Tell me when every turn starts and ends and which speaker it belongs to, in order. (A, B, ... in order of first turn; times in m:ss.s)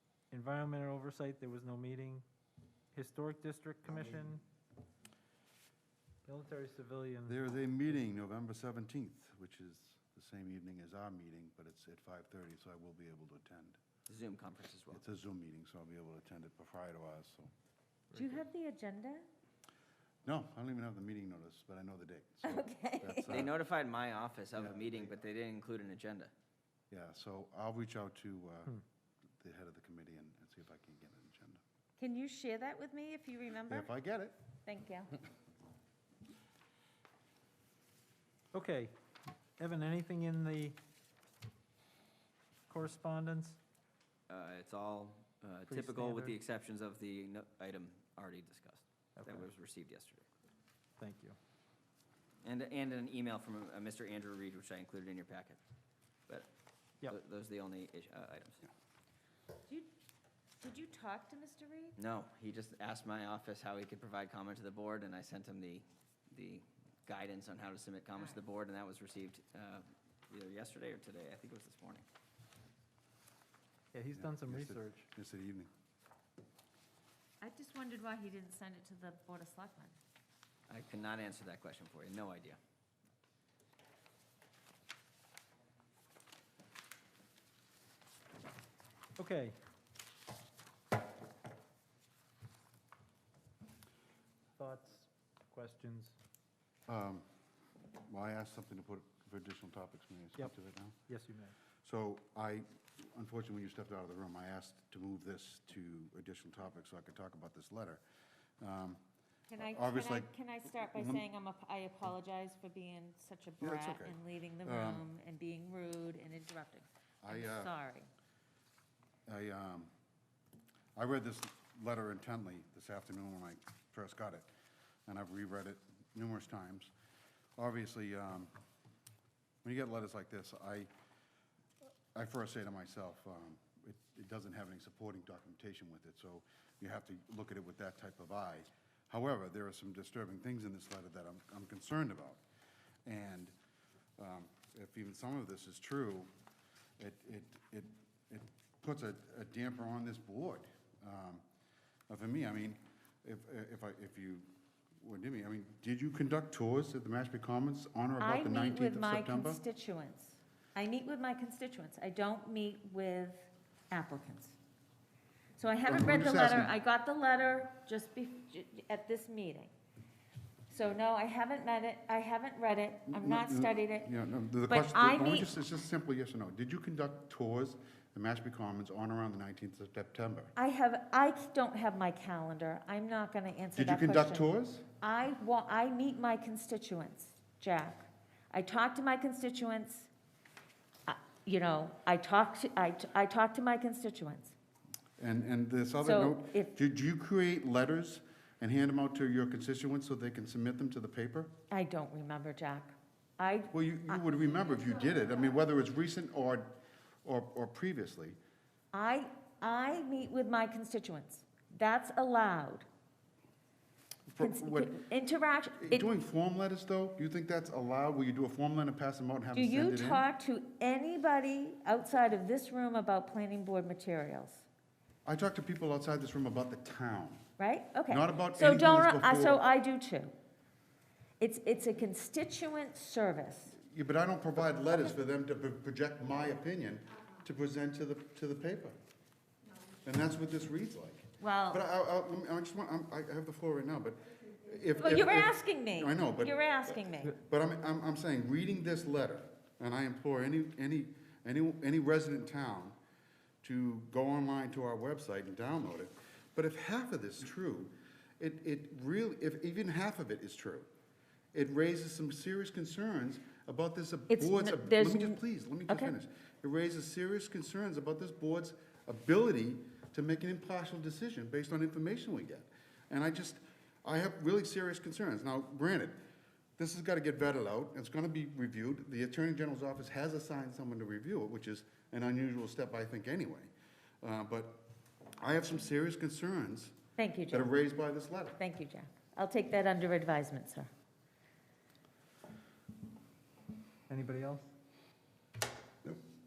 0:00.3-0:02.3 A
0:02.9-0:04.4 A
0:06.3-0:07.4 A
0:07.3-0:13.8 B
0:14.1-0:15.0 C
0:14.9-0:17.5 B
0:18.1-0:19.2 D
0:20.2-0:23.6 B
0:22.4-0:23.5 D
0:23.3-0:26.3 C
0:26.9-0:28.8 B
0:29.4-0:31.6 B
0:32.0-0:33.9 D
0:33.7-0:34.4 B
0:34.6-0:35.2 D
0:38.5-0:38.9 A
0:39.6-0:40.8 A
0:42.7-0:43.6 A
0:44.3-0:50.3 C
0:45.7-0:46.4 A
0:49.2-0:49.5 A
0:51.0-0:51.4 A
0:52.4-0:55.6 C
0:57.0-0:58.7 C
1:00.6-1:02.0 D
1:02.0-1:12.0 C
1:13.9-1:15.1 A
1:14.1-1:15.7 B
1:17.4-1:20.0 D
1:20.7-1:22.6 C
1:29.2-1:29.6 A
1:34.6-1:36.2 A
1:36.9-1:37.2 B
1:38.1-1:41.0 B
1:40.4-1:41.6 A
1:41.8-1:48.0 B
1:48.6-1:49.0 B
1:49.5-1:58.1 D
1:49.6-1:51.2 B
1:53.6-1:55.0 B
1:57.2-1:57.7 B
1:59.3-1:59.9 B
2:01.0-2:04.5 B
2:05.1-2:06.9 B
2:07.6-2:08.5 B
2:09.6-2:10.9 B
2:12.1-2:22.4 B
2:23.0-2:23.5 B
2:24.2-2:26.3 B
2:27.0-2:31.4 B
2:32.1-2:34.5 B
2:35.0-2:39.6 B
2:38.2-2:44.6 D
2:45.6-2:49.7 D
2:45.9-2:46.7 B
2:50.7-2:54.1 D
2:53.1-3:00.5 B
2:54.7-2:55.5 D
3:00.6-3:04.5 D
3:03.8-3:04.8 B
3:05.0-3:10.1 D
3:11.1-3:14.6 D
3:15.2-3:21.5 B
3:16.0-3:16.7 D
3:21.7-3:24.2 D
3:23.7-3:28.4 B
3:28.9-3:32.8 D
3:34.3-3:35.0 B
3:34.4-3:36.2 D
3:35.8-3:40.2 B
3:39.5-3:44.7 D
3:45.2-3:47.4 B
3:47.6-3:50.3 D
3:48.1-3:49.6 B
3:51.4-3:53.8 D
3:53.8-3:59.0 B
4:00.0-4:13.0 B
4:01.4-4:01.8 D
4:05.0-4:07.4 D
4:13.6-4:20.9 B
4:21.5-4:36.2 B
4:24.3-4:26.1 D
4:36.8-4:44.8 B
4:45.4-4:47.0 B
4:47.2-4:47.8 D
4:47.5-4:48.6 B
4:48.6-4:50.9 D
4:54.1-4:54.7 A